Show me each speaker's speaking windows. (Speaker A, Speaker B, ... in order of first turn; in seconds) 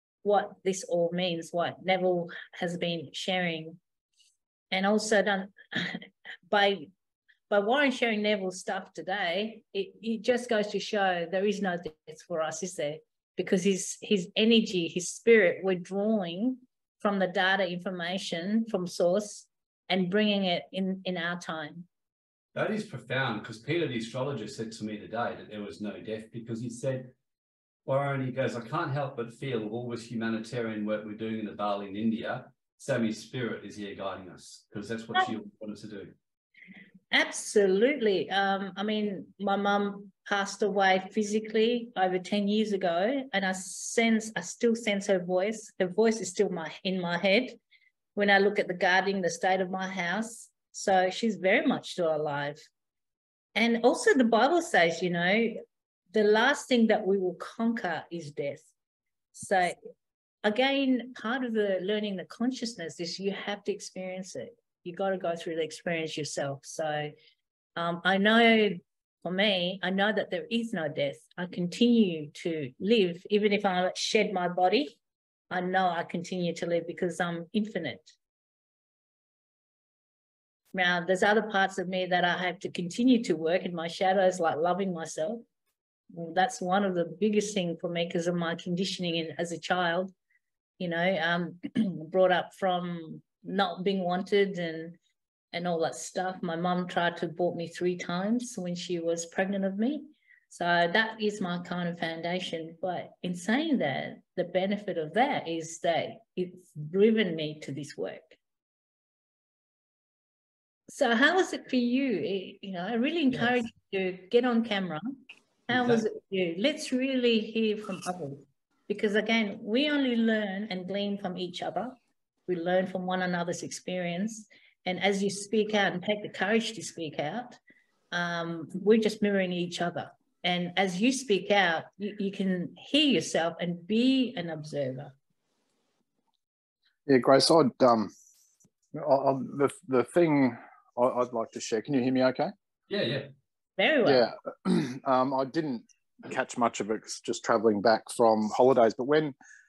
Speaker A: 0.2-3.8, 4.7-6.9, 7.5-21.9, 37.1-47.6, 48.1-52.7, 53.5-55.6, 56.1-58.7, 59.3-59.8, 60.4-67.1, 67.8-75.0, 75.5-78.1, 80.7-85.4, 86.1-90.1, 90.8-95.0, 95.5-108.4, 110.9-127.6, 128.1-135.1, 143.8-144.3
Speaker B: 22.5-27.1, 27.9-36.1, 113.3-113.6, 115.7-116.0, 142.9-143.3
Speaker C: 137.1-138.1, 138.9-142.5, 144.0-149.3